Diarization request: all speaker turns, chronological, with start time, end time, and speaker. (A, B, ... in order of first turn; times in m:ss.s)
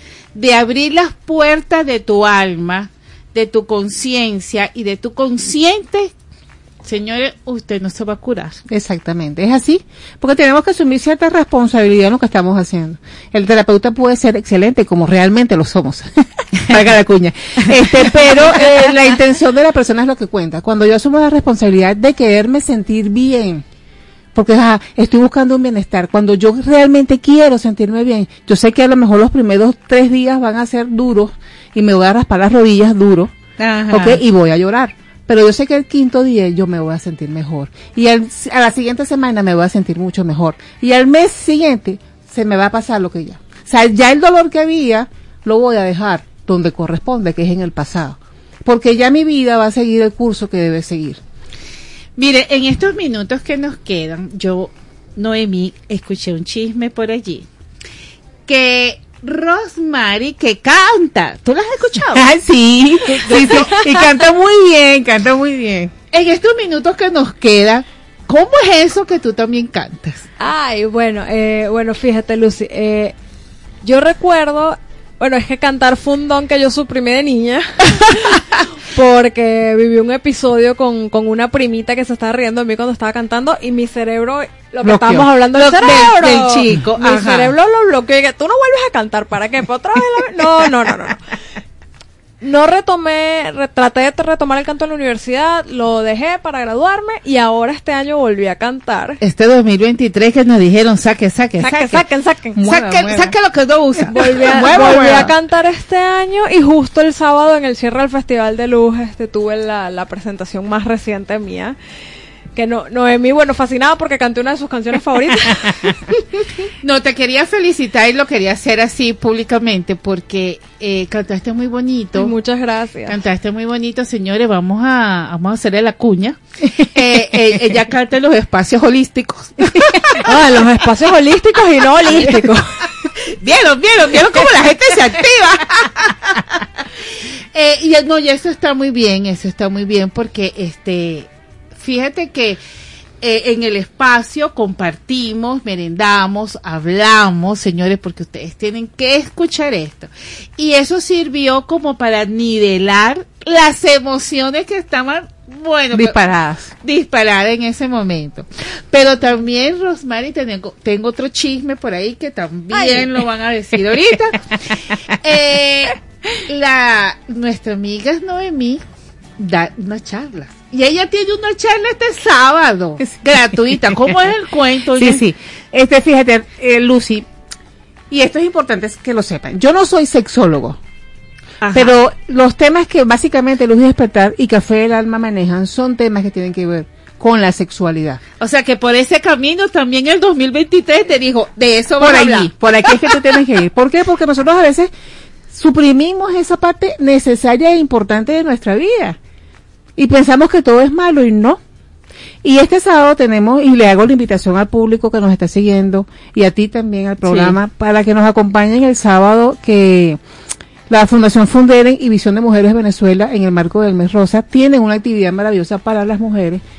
0:00.3-0:06.1 A
0:06.8-0:08.6 A
0:08.7-0:23.6 B
0:24.3-0:33.3 B
0:33.6-0:34.2 A
0:33.9-0:51.2 B
0:52.2-0:57.5 A
0:58.5-1:02.3 A
1:02.1-1:05.9 B
1:03.2-1:03.8 A
1:03.3-1:03.8 C
1:06.1-1:10.2 A
1:10.4-1:13.2 C
1:13.8-1:18.4 C
1:18.9-1:31.3 C
1:24.9-1:25.2 B
1:25.0-1:27.5 A
1:32.4-1:39.2 C
1:39.2-1:42.0 A
1:41.6-1:42.6 C
1:42.6-1:43.3 B
1:42.6-1:45.3 A
1:44.1-1:51.8 C
1:44.3-1:45.3 B
1:52.6-1:56.0 C
1:56.8-2:02.3 A
2:02.2-2:03.2 C
2:03.1-2:10.1 A
2:10.2-2:12.7 C
2:13.4-2:16.2 A
2:17.5-2:22.6 A
2:23.2-2:36.2 A
2:35.9-2:36.7 B
2:36.8-2:44.5 A
2:45.2-2:48.8 A
2:49.4-2:55.2 A
2:54.9-2:57.3 B
2:58.1-3:00.8 B
3:01.6-3:01.9 A
3:01.7-3:08.2 B
3:08.4-3:13.3 A
3:12.0-3:14.9 B
3:15.5-3:19.2 B
3:20.0-3:21.6 B
3:22.4-3:30.2 B
3:27.2-3:27.6 A
3:30.9-3:36.6 B